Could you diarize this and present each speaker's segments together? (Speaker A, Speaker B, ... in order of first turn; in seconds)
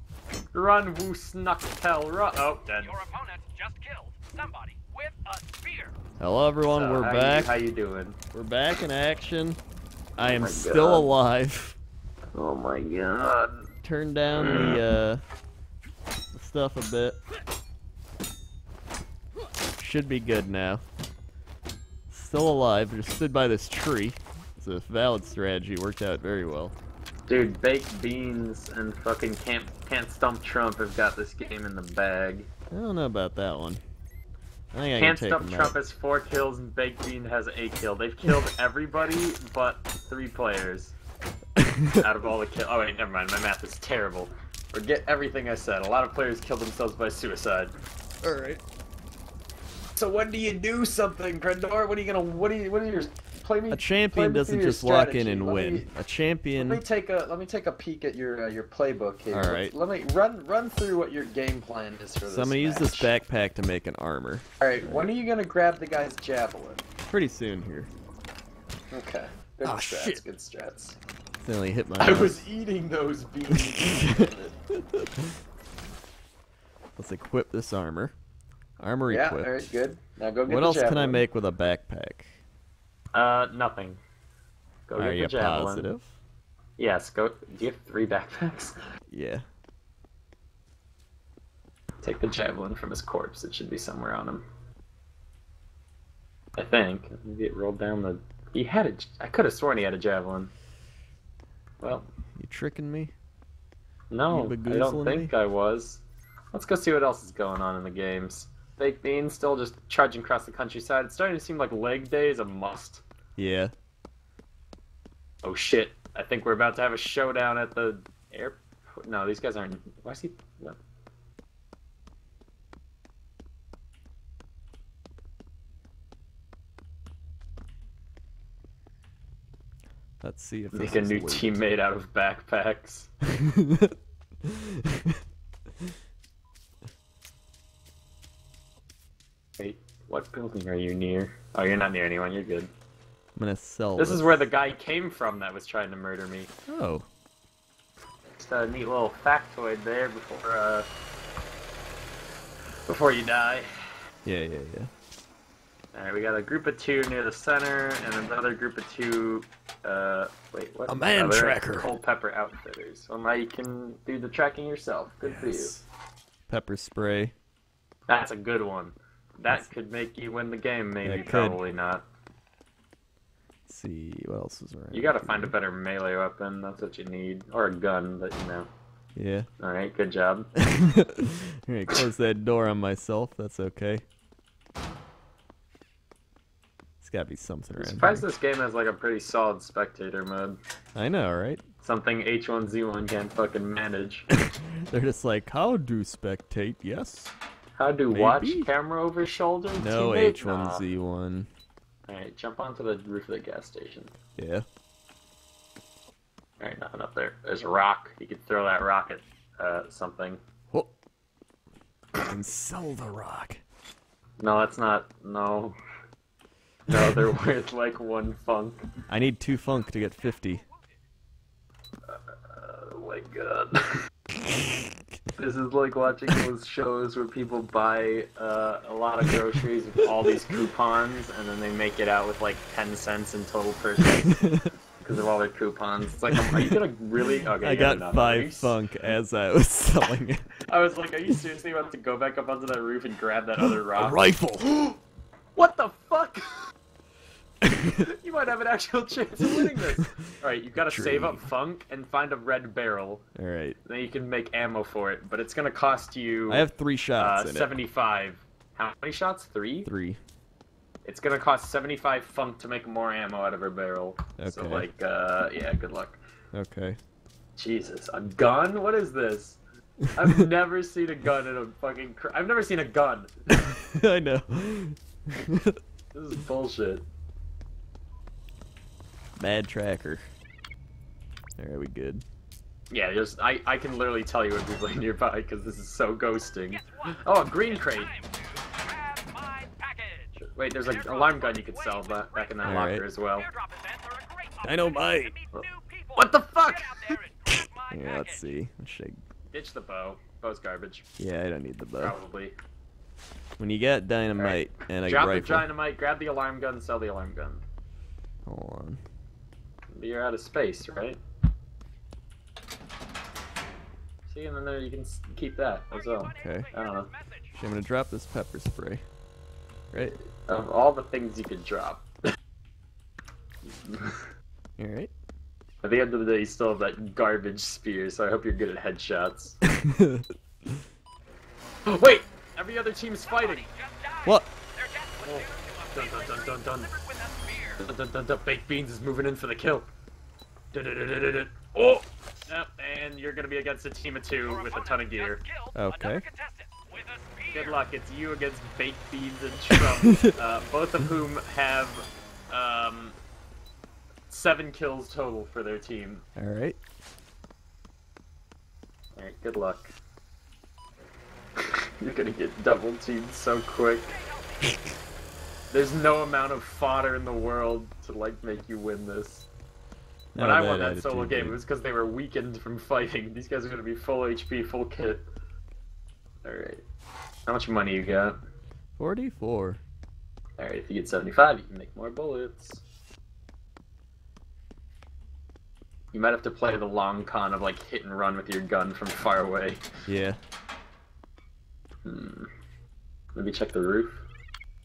Speaker A: 0.5-3.0, 6.7-8.2, 10.2-11.1, 12.3-13.7, 14.3-14.8, 27.3-32.5, 35.0-41.0, 42.0-47.7, 50.0-55.9, 56.6-63.1, 64.6-66.8, 68.9-71.0, 72.0-74.6, 79.1-81.2, 83.1-84.0, 84.9-85.9, 86.8-88.8, 92.0-94.4, 96.6-100.5, 101.8-102.1, 104.1-113.0, 115.4-120.8, 130.7-133.1, 139.6-142.7, 144.0-146.5, 148.3-150.9, 152.9-153.7, 155.9-165.7, 168.1-172.0, 174.9-178.7, 179.6-180.5, 187.8-190.6, 191.8-194.3, 197.8-200.9, 202.1-204.1, 206.6-210.4, 214.4-215.7, 216.9-218.8, 222.1-223.9, 225.4-234.4, 235.0-238.8, 240.7-244.2, 245.6-246.7, 248.0-253.2, 253.8-256.7, 257.2-259.9, 261.1-266.2, 267.6-269.6, 270.1-273.8, 276.1-277.1, 282.9-288.1, 290.4-293.5, 295.5-297.2, 299.5-301.1, 302.0-302.6, 304.4-307.6, 309.9-311.2, 314.3-317.1, 320.5-322.1, 323.6-324.3, 325.8-329.6, 331.9-333.7, 335.2-336.9, 337.8-339.9, 340.7-345.4, 347.5-353.2, 354.3-356.2, 359.2-359.9, 361.6-364.1, 365.7-369.5, 370.4-375.2, 376.4-376.8, 377.5-378.4, 380.6-382.8, 386.1-389.9, 392.1-392.5, 393.4-394.2
Speaker B: 2.9-5.9, 287.8-290.3, 291.0-298.5, 316.1-317.5, 333.4-337.8, 344.5-347.8
Speaker C: 6.2-7.6, 8.3-9.6, 10.2-11.8, 13.8-15.2, 16.3-17.2, 19.8-20.8, 22.1-26.8, 32.7-33.8, 34.7-35.8, 41.6-42.0, 48.2-48.6, 53.7-56.8, 59.3-59.8, 62.3-65.1, 67.1-67.9, 69.6-70.2, 71.4-72.5, 73.5-75.4, 77.0-78.1, 78.8-79.7, 80.5-82.4, 85.0-86.1, 89.1-89.4, 102.4-103.1, 104.3-105.3, 113.4-113.7, 130.2-131.6, 133.3-135.2, 143.4-144.3, 146.7-147.1, 154.2-154.9, 160.9-161.9, 165.2-165.8, 166.5-167.3, 171.0-171.6, 173.7-175.5, 179.2-179.5, 180.6-184.1, 187.0-188.2, 191.0-191.6, 194.3-197.3, 198.1-198.7, 199.8-201.5, 204.4-204.7, 212.2-213.6, 219.1-220.6, 224.5-224.8, 234.2-234.7, 236.3-236.8, 237.6-240.5, 243.6-244.9, 247.6-248.0, 250.8-251.5, 253.4-253.8, 256.5-257.7, 259.9-260.2, 264.4-264.9, 266.5-267.0, 273.7-275.8, 279.4-280.3, 281.6-282.2, 292.6-293.1, 294.6-295.3, 297.9-299.2, 301.2-302.2, 303.6-305.7, 308.5-309.0, 316.4-316.7, 317.5-319.0, 319.9-320.2, 324.8-325.1, 329.7-330.2, 345.8-346.2, 349.8-350.3, 356.4-356.8, 370.4-371.6, 379.0-379.8, 390.1-390.4